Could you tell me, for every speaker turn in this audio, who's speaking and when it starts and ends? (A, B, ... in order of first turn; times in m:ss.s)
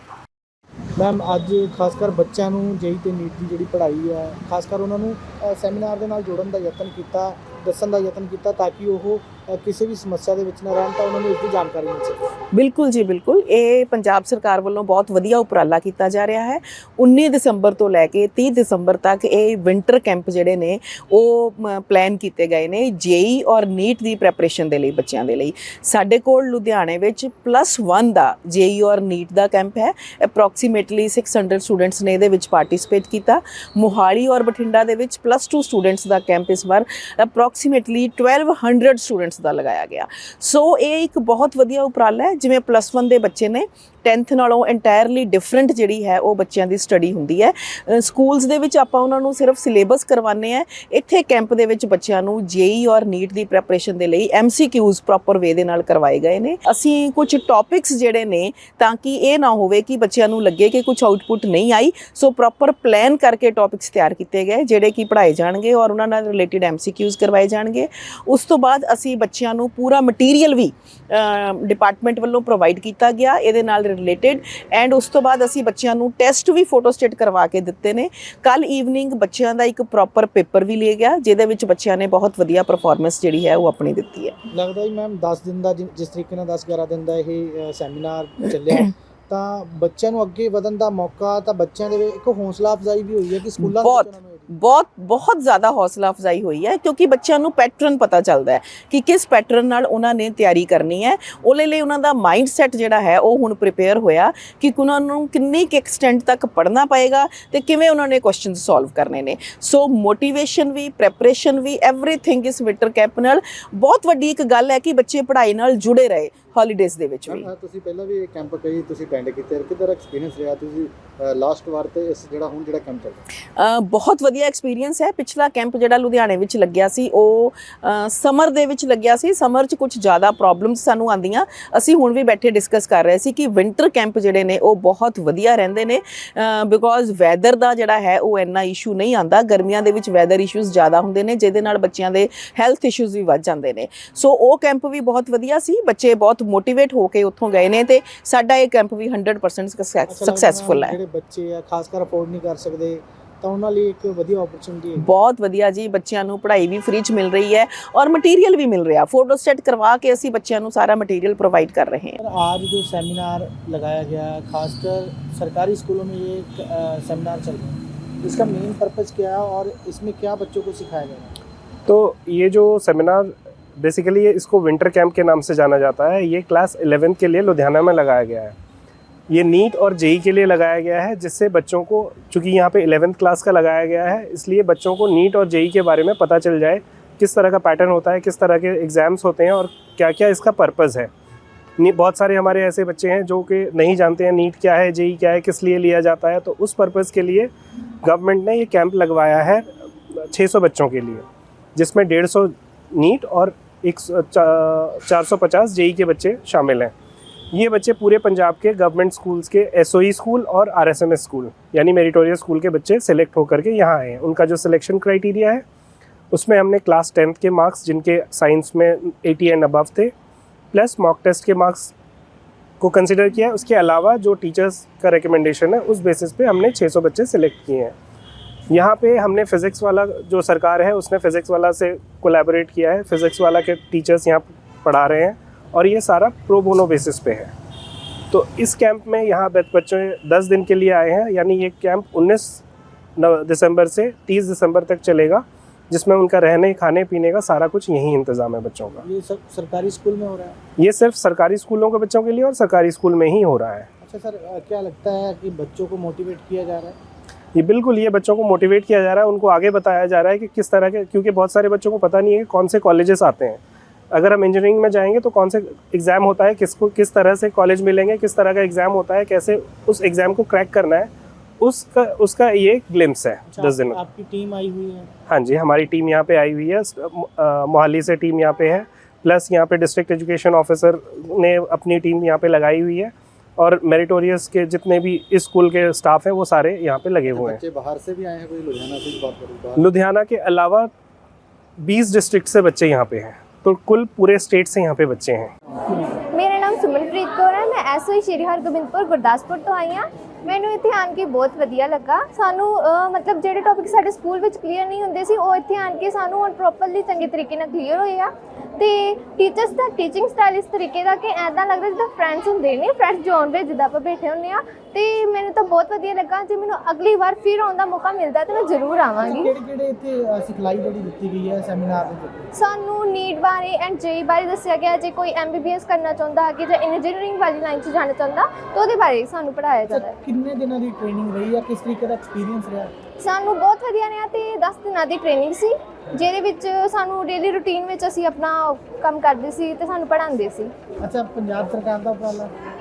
0:01.0-0:12.2 A
0:12.5-1:24.3 B
1:24.5-1:34.5 A
1:33.6-1:57.5 B
1:57.3-2:03.2 C
2:03.6-2:31.0 B
2:30.1-2:35.1 A
2:35.0-2:42.2 B
2:42.2-2:51.3 A
2:51.9-2:58.5 D
2:59.3-3:11.1 D
3:11.8-3:17.5 D
3:18.0-3:19.6 D
3:20.3-3:21.2 D
3:21.7-3:26.9 D
3:27.5-3:35.6 D
3:36.3-3:40.1 D
3:40.7-3:41.9 D
3:42.8-3:47.9 D
3:48.7-3:57.5 D
3:58.3-4:02.6 D
4:03.2-4:09.0 D
4:09.0-4:10.6 A
4:10.8-4:13.9 D
4:14.0-4:17.0 A
4:17.5-4:23.6 D
4:24.1-4:31.1 D
4:31.6-4:34.0 D
4:33.5-4:35.1 A
4:35.3-4:47.6 D
4:47.3-4:49.8 C
4:49.8-4:50.9 D
4:51.8-4:55.5 D
4:56.3-5:19.5 E
5:19.2-5:22.5 A
5:22.5-5:30.1 E
5:29.9-5:32.9 A
5:33.2-5:40.7 E
5:41.0-5:42.5 A